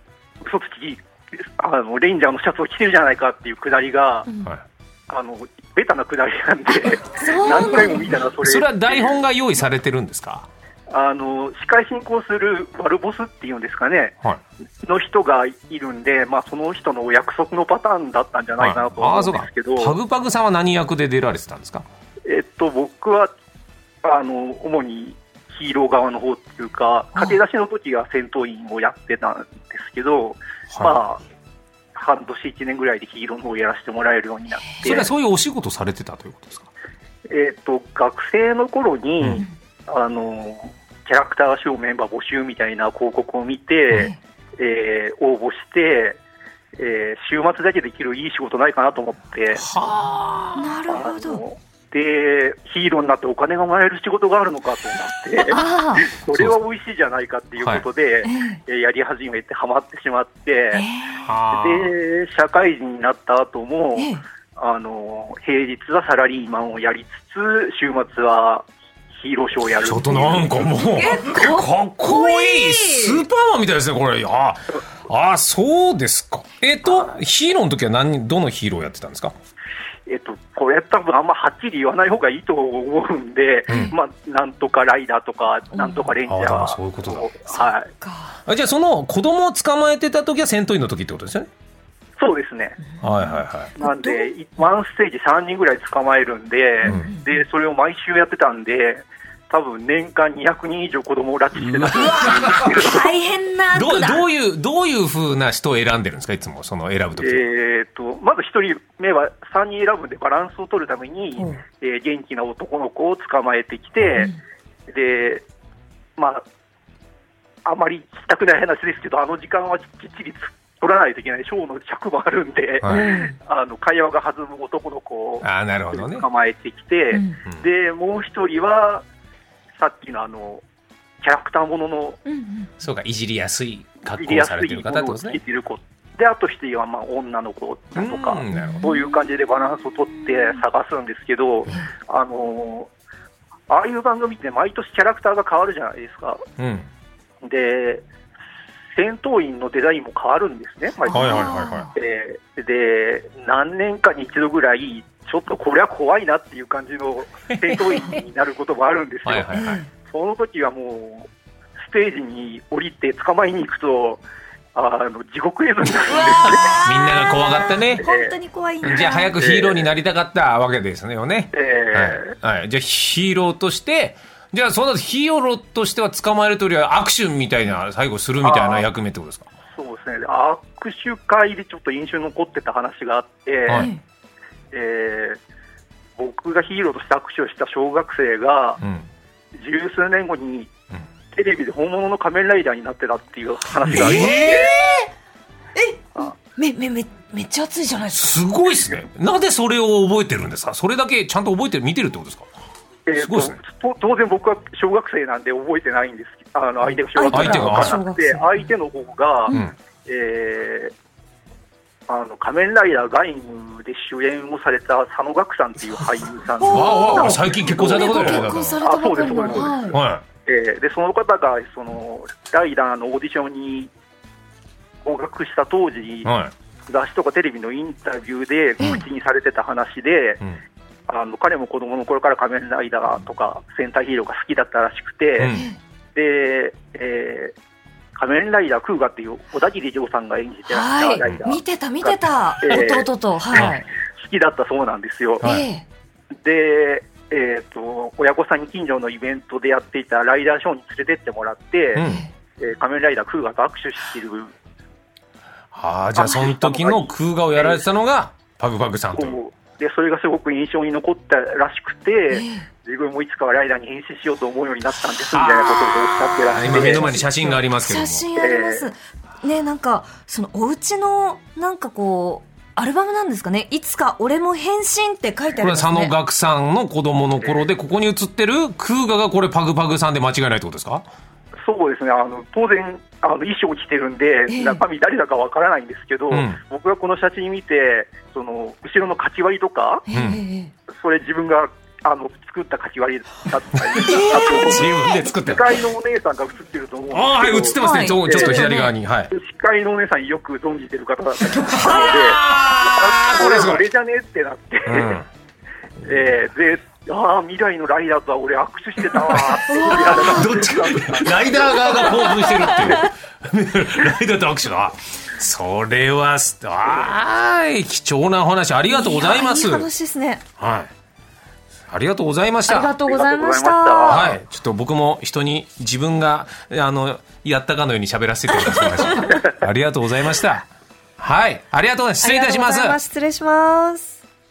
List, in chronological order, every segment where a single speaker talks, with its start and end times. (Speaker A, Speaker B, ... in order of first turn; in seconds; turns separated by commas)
Speaker A: 0.4-4.3, Speaker A: 5.1-9.2, Speaker B: 7.2-8.1, Speaker C: 8.4-10.5, Speaker A: 10.9-14.2, Speaker A: 14.8-20.0, Speaker C: 18.6-21.9, Speaker A: 22.2-23.3, Speaker A: 24.0-31.2, Speaker A: 31.9-35.1, Speaker C: 34.9-36.7, Speaker A: 37.3-46.2, Speaker A: 46.8-49.7, Speaker C: 49.6-50.8, Speaker B: 50.6-51.4, Speaker A: 50.9-60.9, Speaker B: 55.4-56.1, Speaker C: 56.3-56.6, Speaker B: 58.2-58.6, Speaker B: 60.7-61.3, Speaker C: 61.2-62.0, Speaker A: 61.5-70.6, Speaker B: 64.0-64.2, Speaker C: 69.8-79.3, Speaker B: 70.9-73.2, Speaker A: 80.1-87.9, Speaker C: 83.7-84.0, Speaker B: 85.8-86.1, Speaker C: 86.3-87.3, Speaker B: 87.5-88.4, Speaker C: 88.5-91.5, Speaker A: 92.2-92.8, Speaker C: 93.0-93.7, Speaker A: 93.8-103.1, Speaker B: 93.8-94.3, Speaker C: 96.8-97.1, Speaker B: 96.8-97.2, Speaker C: 101.6-102.7, Speaker B: 102.2-104.2, Speaker C: 103.7-107.5, Speaker A: 107.2-114.3, Speaker A: 114.9-115.5, Speaker A: 116.2-116.5, Speaker A: 117.7-129.1, Speaker C: 122.8-123.2, Speaker B: 122.9-123.3, Speaker C: 125.4-126.3, Speaker B: 127.1-127.4, Speaker A: 129.8-130.6, Speaker A: 131.2-132.2, Speaker B: 132.3-132.7, Speaker C: 132.8-135.4, Speaker A: 134.1-142.9, Speaker C: 138.0-138.8, Speaker B: 138.5-139.2, Speaker B: 140.3-140.5, Speaker A: 143.7-146.4, Speaker C: 146.6-146.9, Speaker A: 147.4-148.1, Speaker A: 148.9-164.2, Speaker B: 151.1-151.9, Speaker C: 151.1-151.9, Speaker C: 159.3-159.8, Speaker B: 159.5-159.9, Speaker A: 164.7-166.8, Speaker B: 166.3-169.3, Speaker C: 166.8-168.1, Speaker A: 168.0-168.3, Speaker C: 168.8-179.5, Speaker A: 169.4-169.9, Speaker A: 171.5-172.3, Speaker A: 178.4-178.8, Speaker A: 179.8-183.9, Speaker B: 183.7-184.0, Speaker A: 184.7-185.4, Speaker A: 186.2-188.8, Speaker C: 188.8-189.1, Speaker A: 189.6-190.7, Speaker A: 191.3-194.7, Speaker C: 193.8-194.7, Speaker B: 193.9-195.1, Speaker B: 195.8-198.4, Speaker C: 198.1-202.5, Speaker A: 203.1-210.9, Speaker C: 203.2-203.6, Speaker B: 207.2-208.4, Speaker C: 207.3-208.0, Speaker C: 209.5-209.8, Speaker A: 212.1-223.9, Speaker B: 216.6-219.9, Speaker C: 216.7-218.8, Speaker C: 219.4-220.2, Speaker A: 225.0-226.3, Speaker C: 226.2-226.5, Speaker A: 226.9-230.4, Speaker A: 231.1-235.5, Speaker C: 235.4-235.7, Speaker B: 235.5-235.8, Speaker A: 236.2-237.5, Speaker A: 238.2-245.5, Speaker B: 240.7-243.9, Speaker C: 245.4-245.7, Speaker B: 245.4-245.8, Speaker A: 246.4-252.1, Speaker C: 251.9-252.2, Speaker B: 252.0-252.3, Speaker A: 252.6-254.5, Speaker C: 255.7-259.4, Speaker A: 256.2-257.8, Speaker A: 259.1-267.3, Speaker B: 262.3-262.6, Speaker C: 265.3-268.3, Speaker B: 266.7-276.1, Speaker A: 268.4-268.9, Speaker C: 275.6-281.1, Speaker A: 281.6-290.1, Speaker B: 284.5-284.8, Speaker C: 286.3-286.6, Speaker B: 290.1-290.7, Speaker C: 290.1-290.4, Speaker A: 290.9-298.7, Speaker C: 293.9-295.8, Speaker B: 294.0-294.9, Speaker C: 297.1-299.3, Speaker B: 297.8-298.9, Speaker A: 299.3-305.2, Speaker B: 301.6-302.3, Speaker C: 301.9-303.8, Speaker C: 304.9-305.2, Speaker A: 306.0-312.2, Speaker C: 309.3-319.9, Speaker B: 309.7-310.5, Speaker B: 311.8-313.1, Speaker B: 318.9-320.4, Speaker C: 320.6-320.9, Speaker C: 321.9-322.9, Speaker B: 322.7-324.3, Speaker A: 323.1-324.4, Speaker C: 324.1-330.7, Speaker C: 331.2-333.0, Speaker B: 332.2-334.2